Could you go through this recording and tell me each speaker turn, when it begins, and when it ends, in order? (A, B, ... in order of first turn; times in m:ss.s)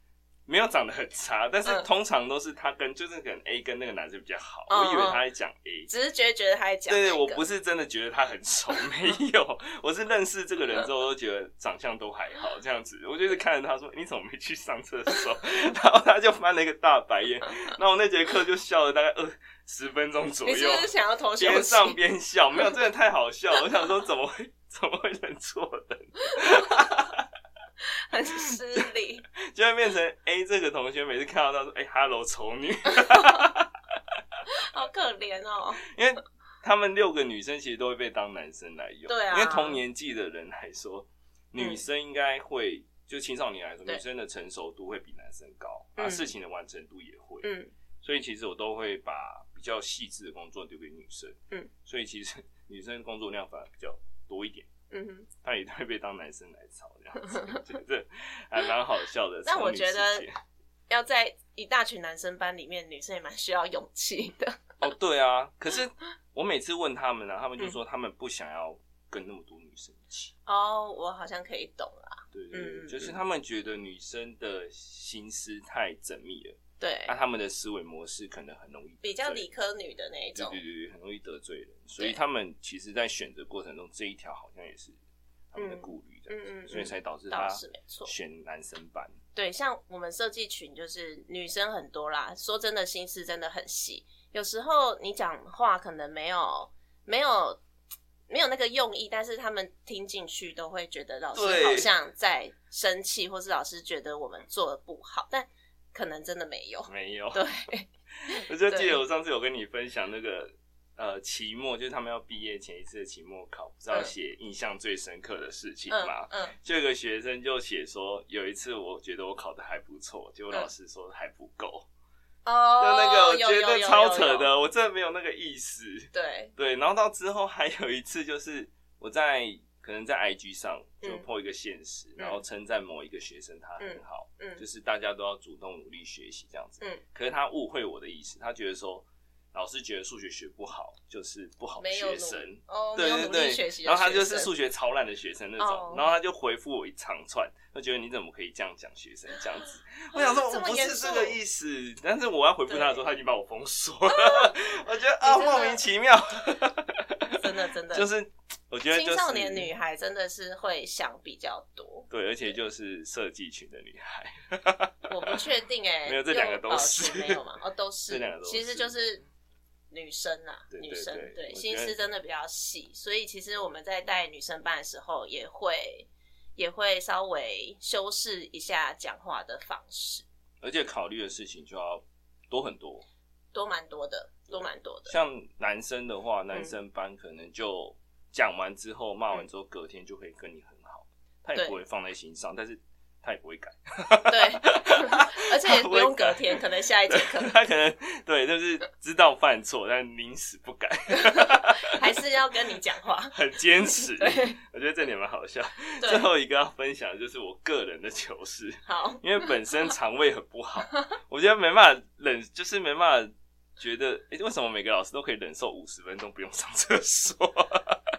0:00.5-0:05.9 A
0:04.7-0:05.2 B
0:05.9-0:07.4 B
0:06.9-0:27.2 A
0:20.4-0:22.0 B
0:26.3-0:26.8 B
0:28.1-0:29.2 B
0:29.5-0:33.7 A
0:33.1-0:33.3 B
0:34.7-0:35.8 B
0:35.9-0:47.5 A
0:39.1-0:39.8 B
0:41.6-0:41.8 B
0:46.0-0:46.3 B
0:47.4-0:47.7 B
0:48.0-0:54.7 A
0:54.9-0:55.3 B
0:55.4-1:00.3 A
0:59.4-1:00.3 B
1:00.9-1:04.7 B
1:04.8-1:10.3 A
1:10.4-1:13.2 B
1:12.3-1:19.4 A
1:16.8-1:17.1 B
1:19.0-1:20.6 B
1:20.3-1:25.0 A
1:25.5-1:29.1 A
1:25.6-1:28.1 B
1:29.3-1:37.6 B
1:38.3-1:49.0 B
1:41.3-1:41.9 A
1:46.9-1:47.5 A
1:48.4-2:01.9 A
1:55.9-1:56.6 B
2:02.4-2:04.5 B
2:02.8-2:37.3 A
2:06.1-2:06.5 B
2:13.8-2:14.6 B
2:21.8-2:24.5 B
2:25.6-2:26.1 B
2:30.1-2:31.4 B
2:32.7-2:33.0 B
2:34.1-2:34.5 B
2:35.2-2:35.8 B
2:37.3-2:38.1 B
2:37.9-2:39.7 A
2:38.9-2:42.1 B
2:42.1-2:45.4 A
2:45.1-2:49.2 B
2:46.1-2:47.4 A
2:48.1-2:48.9 A
2:49.9-3:00.2 B
2:50.7-2:52.0 A
3:00.6-3:03.0 A
3:03.5-3:05.2 B
3:05.1-3:16.6 A
3:14.3-3:17.5 B
3:17.1-3:22.0 A
3:21.3-3:23.3 B
3:23.3-3:38.0 A
3:23.9-3:24.6 B
3:26.0-3:26.3 B
3:28.8-3:29.5 B